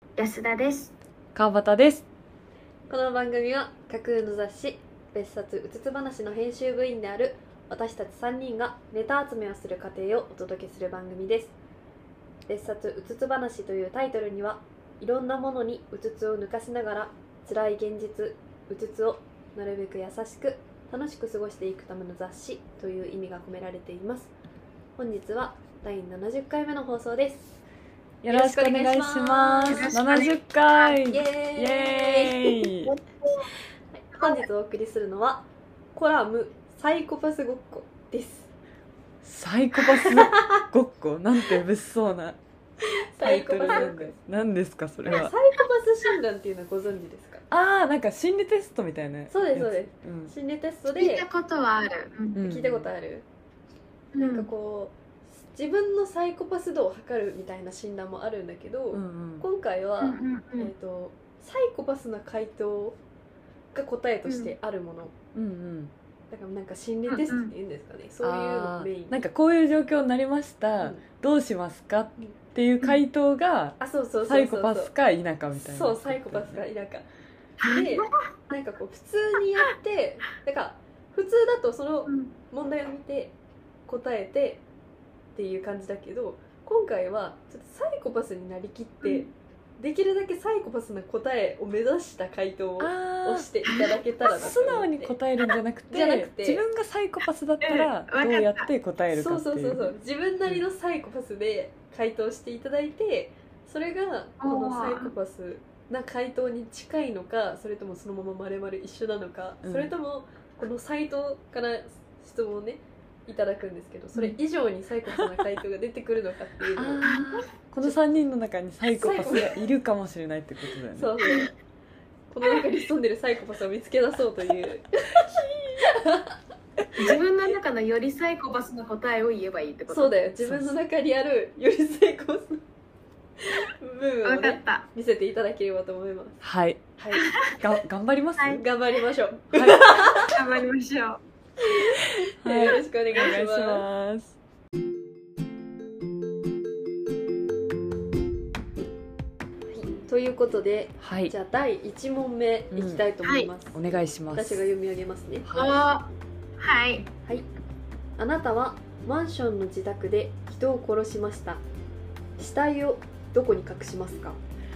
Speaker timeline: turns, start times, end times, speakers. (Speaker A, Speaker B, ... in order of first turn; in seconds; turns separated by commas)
Speaker A: 0.2-0.9, Speaker B: 1.3-2.0, Speaker C: 2.9-11.5, Speaker C: 12.5-24.3, Speaker C: 25.0-27.6, Speaker B: 28.2-32.9, Speaker C: 28.3-30.3, Speaker A: 29.7-30.4, Speaker C: 30.9-32.7, Speaker A: 32.9-33.5, Speaker C: 33.9-38.5, Speaker A: 34.1-34.4, Speaker B: 39.2-42.4, Speaker C: 39.9-40.6, Speaker C: 42.8-44.1, Speaker B: 43.2-45.3, Speaker A: 43.6-43.9, Speaker C: 45.0-47.4, Speaker B: 47.5-50.3, Speaker C: 49.3-51.2, Speaker A: 50.9-52.4, Speaker B: 52.3-52.9, Speaker C: 52.4-53.2, Speaker A: 54.1-54.5, Speaker C: 54.3-63.0, Speaker B: 58.9-59.4, Speaker A: 60.0-60.7, Speaker C: 63.7-65.1, Speaker A: 64.2-64.5, Speaker B: 65.3-65.9, Speaker C: 66.3-69.2, Speaker A: 67.1-67.5, Speaker B: 68.2-76.7, Speaker C: 73.8-74.9, Speaker C: 75.5-77.0, Speaker A: 77.6-78.1, Speaker C: 77.6-83.3, Speaker A: 82.1-82.3, Speaker C: 83.9-84.6, Speaker C: 85.3-95.2, Speaker A: 89.0-89.3, Speaker B: 92.8-93.5, Speaker B: 94.3-99.9, Speaker C: 95.9-96.6, Speaker A: 97.6-98.7, Speaker C: 99.1-117.1, Speaker A: 104.4-105.1, Speaker B: 109.6-109.9, Speaker B: 116.8-121.1, Speaker C: 118.9-119.6, Speaker C: 120.9-121.5, Speaker C: 122.3-125.2, Speaker B: 125.3-125.9, Speaker C: 125.8-126.3, Speaker A: 127.0-130.2, Speaker C: 129.9-132.6, Speaker B: 130.4-130.8, Speaker C: 133.4-136.4, Speaker A: 134.2-134.8, Speaker B: 136.4-136.8, Speaker C: 137.0-137.4, Speaker A: 137.2-137.5, Speaker B: 137.5-138.6, Speaker C: 138.6-140.4, Speaker B: 139.5-140.1, Speaker A: 140.3-141.2, Speaker C: 141.6-143.8, Speaker B: 142.4-144.3, Speaker C: 149.7-155.5, Speaker B: 151.0-151.3, Speaker B: 152.7-153.1, Speaker A: 153.2-153.5, Speaker B: 153.7-154.6, Speaker B: 155.4-155.8, Speaker A: 155.5-156.1, Speaker A: 156.6-157.1, Speaker C: 158.2-161.6, Speaker C: 162.4-164.4